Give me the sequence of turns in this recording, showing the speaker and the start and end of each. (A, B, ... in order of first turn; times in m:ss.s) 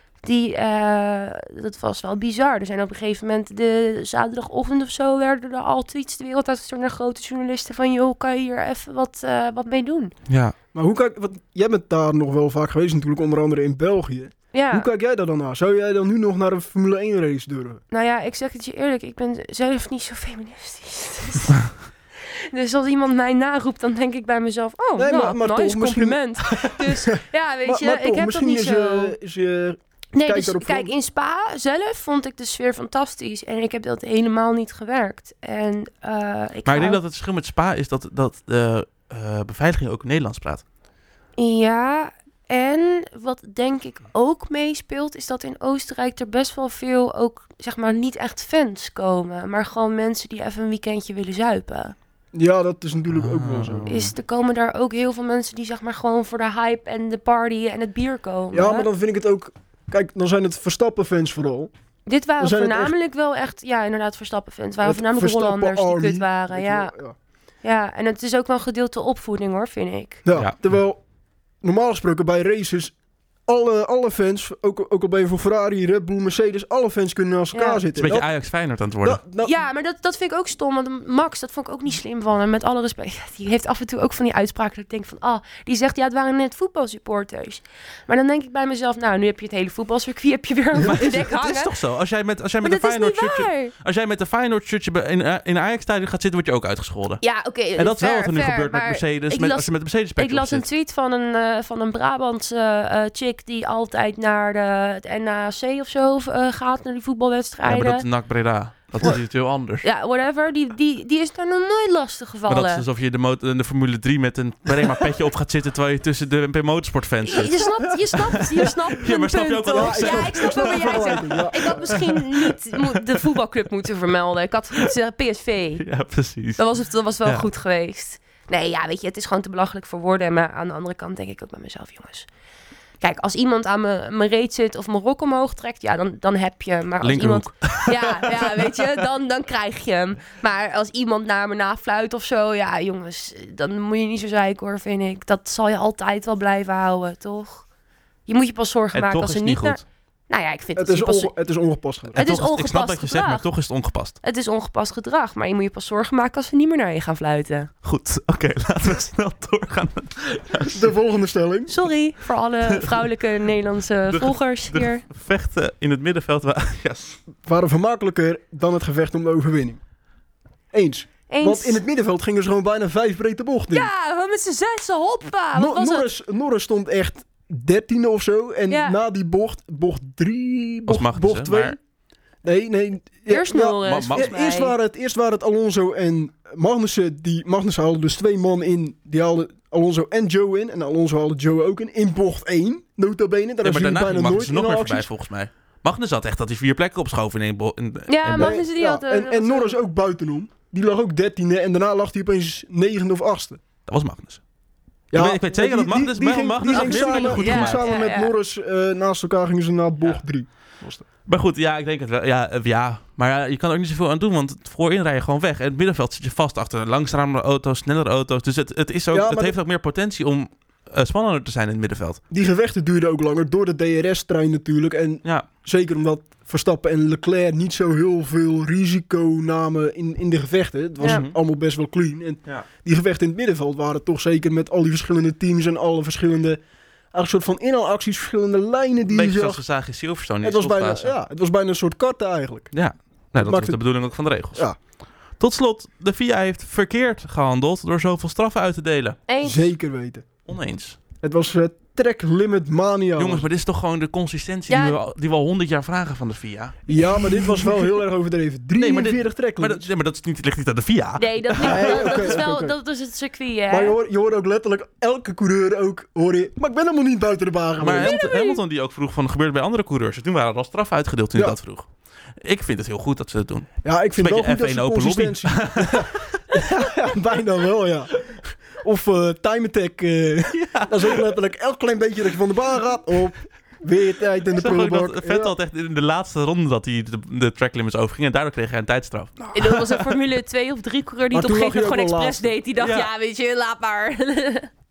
0:00.2-0:10.1 A
0:10.3-0:10.5 B
0:10.7-0:17.8 C
0:14.5-0:14.9 A
0:17.9-0:21.7 A
0:22.3-0:29.1 A
0:25.0-0:30.9 C
0:30.1-0:37.0 A
0:36.6-0:40.6 B
0:41.4-0:51.9 A
0:52.3-0:53.9 C
0:53.1-0:54.1 B
0:53.9-0:58.9 A
0:58.5-1:01.7 C
1:02.0-1:06.9 A
1:02.4-1:02.9 C
1:04.8-1:07.2 C
1:07.6-1:10.2 A
1:10.2-1:11.0 C
1:11.6-1:12.9 C
1:13.5-1:18.3 C
1:17.5-1:17.8 A
1:18.0-1:19.2 B
1:19.0-1:19.6 C
1:19.4-1:31.7 A
1:30.8-1:37.2 B
1:32.6-1:33.7 A
1:37.2-1:48.0 A
1:37.8-1:40.6 B
1:47.6-1:49.8 B
1:49.8-1:52.8 A
1:52.5-2:03.2 B
1:57.2-2:05.8 A
1:59.7-2:02.0 C
2:05.8-2:06.6 B
2:06.6-2:12.3 A
2:13.0-2:27.6 A
2:17.0-2:18.8 B
2:28.3-2:31.3 A
2:28.9-2:29.8 B
2:30.7-2:32.2 C
2:32.1-2:33.4 A
2:32.1-2:34.2 B
2:34.2-2:37.7 A
2:37.8-2:40.9 B
2:40.7-2:41.7 C
2:41.7-2:45.0 A
2:44.1-2:47.2 B
2:47.4-2:49.8 C
2:50.7-2:53.9 C
2:51.3-2:51.8 A
2:53.7-2:56.0 A
2:55.5-3:01.8 C
2:58.7-2:59.0 A
3:00.9-3:01.8 B
3:02.4-3:15.1 C
3:03.3-3:04.7 A
3:03.8-3:04.3 B
3:13.6-3:18.6 B
3:18.1-3:19.8 A
3:18.4-3:23.6 C
3:23.8-3:24.4 B
3:25.1-3:31.0 C
3:25.1-3:27.8 B
3:26.7-3:28.3 A
3:31.2-3:42.2 B
3:39.1-3:39.6 C
3:42.3-3:56.6 C
3:51.0-3:51.4 B
3:57.1-3:59.6 C
3:59.1-4:01.1 B
4:00.4-4:02.7 C
4:02.7-4:04.7 B
4:03.4-4:03.8 C
4:05.4-4:09.2 B
4:09.3-4:09.7 A
4:09.4-4:10.2 C
4:10.5-4:11.0 B
4:11.2-4:13.4 C
4:13.2-4:17.7 B
4:14.7-4:15.0 A
4:16.9-4:19.9 C
4:18.8-4:22.4 B
4:21.2-4:24.0 A
4:21.6-4:22.7 C
4:23.7-4:28.2 C
4:27.8-4:31.9 B
4:28.0-4:28.6 A
4:32.4-4:36.4 B
4:33.8-4:45.5 C
4:40.5-4:41.2 B
4:44.5-4:50.2 B
4:49.5-4:54.7 A
4:51.3-4:52.5 C
4:52.8-4:53.1 B